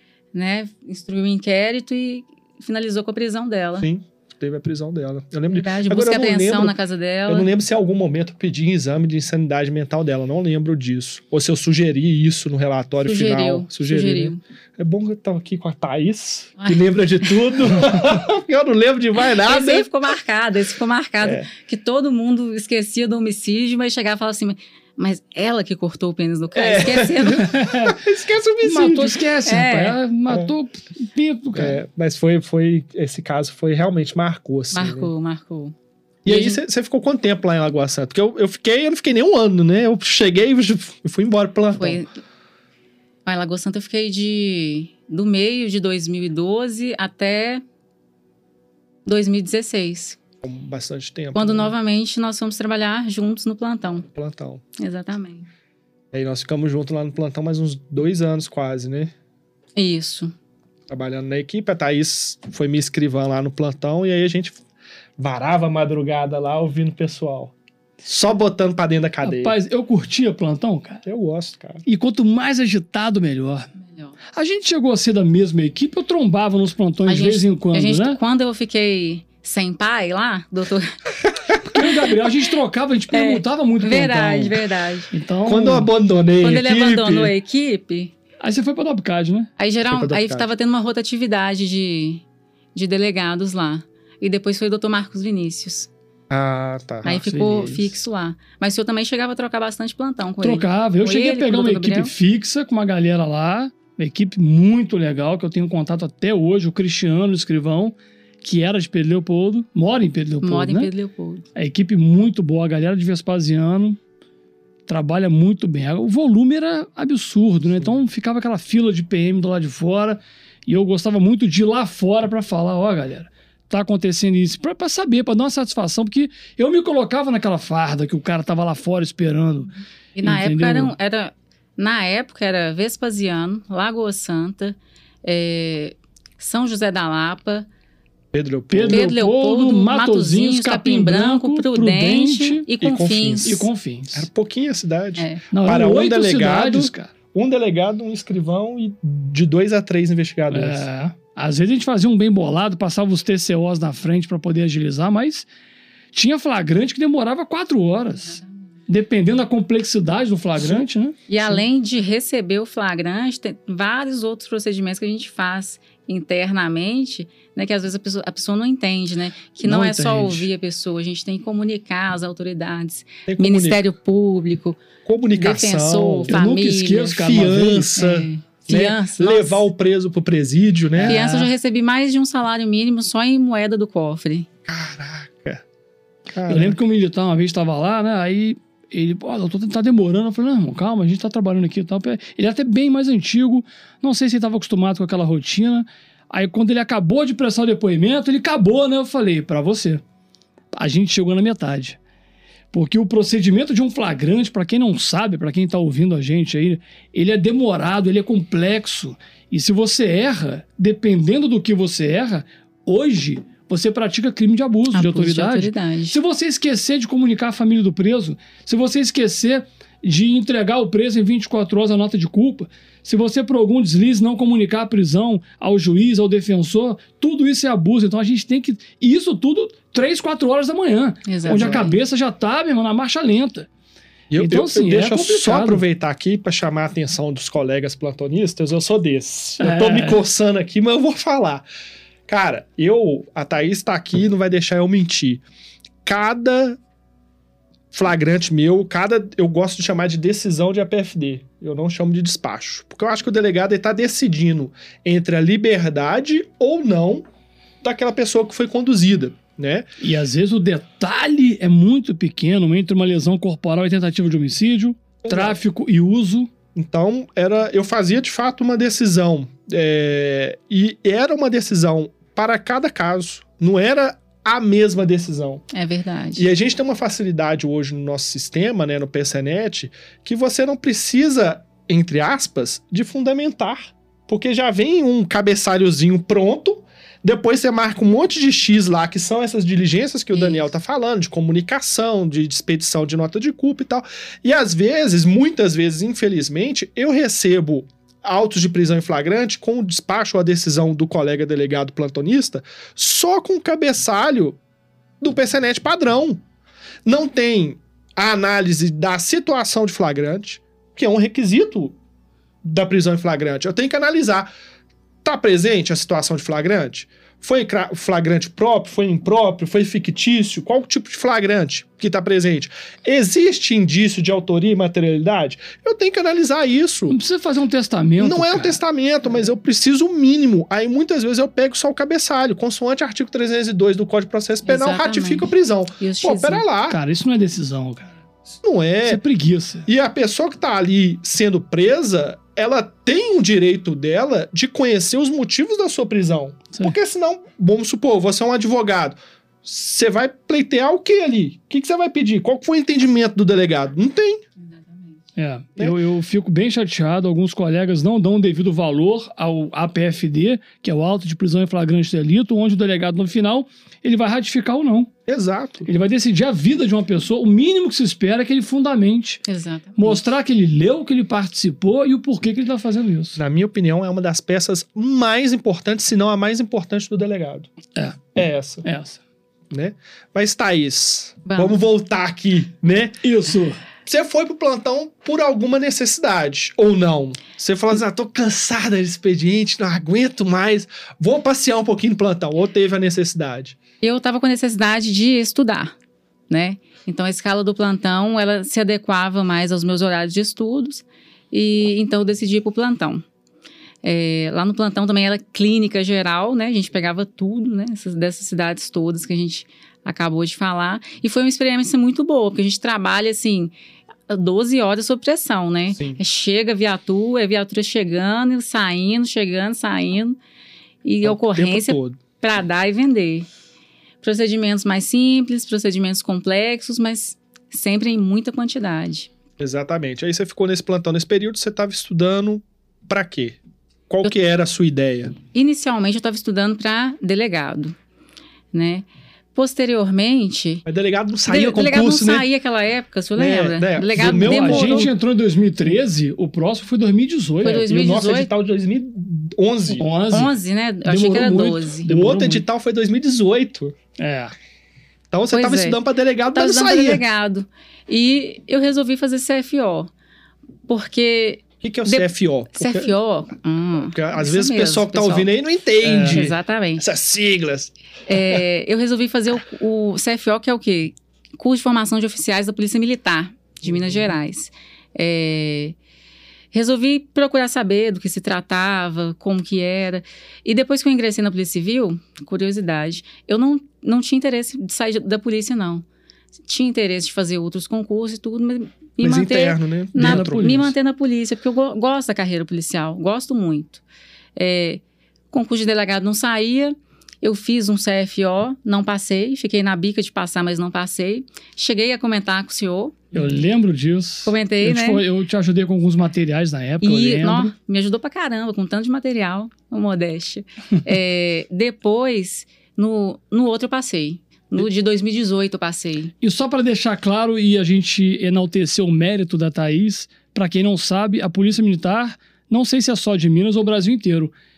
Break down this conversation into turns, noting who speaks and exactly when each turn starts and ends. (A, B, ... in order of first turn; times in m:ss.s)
0:00.3-0:03.9 A
0:03.8-0:06.8 B
0:05.5-0:07.5 A
0:07.3-0:19.9 B
0:13.0-0:14.4 A
0:16.6-0:17.6 A
0:19.2-0:27.5 A
0:21.2-0:21.5 B
0:26.6-0:29.2 B
0:27.3-0:28.0 C
0:28.6-0:31.8 C
0:29.4-0:30.0 A
0:31.5-0:35.1 B
0:34.7-0:35.8 A
0:36.2-0:42.0 B
0:36.3-0:36.6 A
0:41.8-0:42.1 A
0:43.3-0:47.6 A
0:49.0-0:50.2 A
0:50.4-0:51.7 B
0:51.3-0:54.1 A
0:54.1-0:54.6 B
0:54.8-0:55.5 A
0:56.1-0:59.1 B
0:59.8-1:00.3 A
1:00.9-1:04.6 B
1:05.2-1:09.6 B
1:09.2-1:11.0 C
1:11.1-1:11.8 B
1:11.9-1:13.7 C
1:13.9-1:14.1 A
1:14.3-1:18.2 C
1:17.1-1:20.9 A
1:21.2-1:21.8 B
1:21.7-1:24.6 C
1:23.1-1:25.1 A
1:25.1-1:25.9 C
1:25.4-1:27.3 B
1:26.4-1:28.1 A
1:28.4-1:29.5 C
1:29.6-1:32.2 A
1:29.9-1:30.5 B
1:32.8-1:35.9 A
1:36.3-1:37.2 B
1:37.0-1:42.1 A
1:37.1-1:38.0 C
1:40.4-1:50.9 C
1:50.4-1:51.4 A
1:51.6-1:54.0 C
1:54.9-2:10.9 C
2:10.2-2:17.7 A
2:18.3-2:19.1 B
2:18.7-2:22.7 C
2:18.9-2:23.7 A
2:22.8-2:30.9 B
2:23.4-2:24.3 C
2:25.2-2:25.4 A
2:25.5-2:27.1 C
2:30.5-2:35.5 C
2:36.1-2:41.2 C
2:40.6-2:40.8 B
2:41.3-2:54.8 A
2:49.6-2:50.5 C
2:53.3-2:53.8 B
2:55.0-2:56.4 B
2:55.4-2:57.3 A
2:56.3-2:58.0 C
2:57.1-3:01.5 B
2:58.0-2:59.6 A
3:01.0-3:01.3 C
3:01.1-3:04.5 A
3:04.7-3:05.6 B
3:06.3-3:06.8 B
3:06.5-3:20.0 C
3:20.7-3:22.0 C
3:22.7-3:53.7 C
3:34.9-3:36.2 A
3:51.3-3:52.0 A
3:51.4-3:51.9 B
3:54.3-4:01.7 B
3:54.4-3:55.8 C
3:59.6-4:00.2 C
4:02.3-4:05.4 B
4:06.0-4:06.8 B
4:07.9-4:17.2 B
4:17.8-4:19.9 B
4:20.0-4:26.5 C
4:25.2-4:25.6 B
4:26.8-4:35.6 B
4:35.7-4:36.5 A
4:36.4-5:04.6 B
4:50.3-4:50.6 A
5:05.2-5:06.4 B
5:07.0-5:12.0 B
5:12.6-5:14.5 B
5:15.2-5:27.2 B
5:27.1-5:28.8 C
5:28.2-5:37.0 B
5:34.6-5:36.7 A
5:36.9-5:38.2 C
5:38.5-5:39.2 B
5:39.1-5:39.9 C
5:39.9-5:54.4 B
5:54.7-5:55.2 A
5:55.4-6:05.1 C
6:05.3-6:05.9 B
6:05.9-6:09.4 C
6:09.5-6:10.2 A
6:10.0-6:13.4 C
6:13.4-6:17.7 B
6:18.0-6:19.2 C
6:18.4-6:18.8 B
6:19.7-6:23.2 B
6:21.5-6:21.8 A
6:23.2-6:23.8 C
6:24.0-6:33.8 B
6:34.0-6:35.9 A
6:36.5-6:43.2 A
6:44.0-6:53.7 A
6:54.3-7:00.4 A
6:55.9-6:56.2 B
7:01.0-7:03.5 A
7:01.2-7:02.2 B
7:04.2-7:09.3 A
7:09.6-7:13.6 B
7:14.1-7:15.4 B
7:15.5-7:18.0 A
7:18.7-7:20.8 A
7:20.8-7:22.5 B
7:21.5-7:25.1 A
7:23.4-7:25.1 B
7:24.2-7:27.9 C
7:27.6-7:28.5 A
7:27.7-7:30.1 B
7:30.0-7:32.6 C
7:30.3-7:32.1 A
7:32.1-7:34.0 B
7:34.2-7:34.5 C
7:35.3-7:37.2 B
7:35.5-7:36.0 A
7:36.5-7:40.1 A
7:40.9-7:45.5 A
7:41.8-7:43.1 B
7:44.0-7:48.6 B
7:46.0-7:46.5 C
7:46.2-7:47.1 A
7:48.3-7:56.0 A
7:53.8-7:54.3 B
7:56.7-8:06.0 A
8:06.6-8:14.0 A
8:09.2-8:10.8 B
8:10.2-8:10.9 C
8:14.6-8:23.5 A
8:23.3-8:27.7 C
8:24.5-8:25.2 A
8:27.0-8:36.3 A
8:36.4-8:44.5 C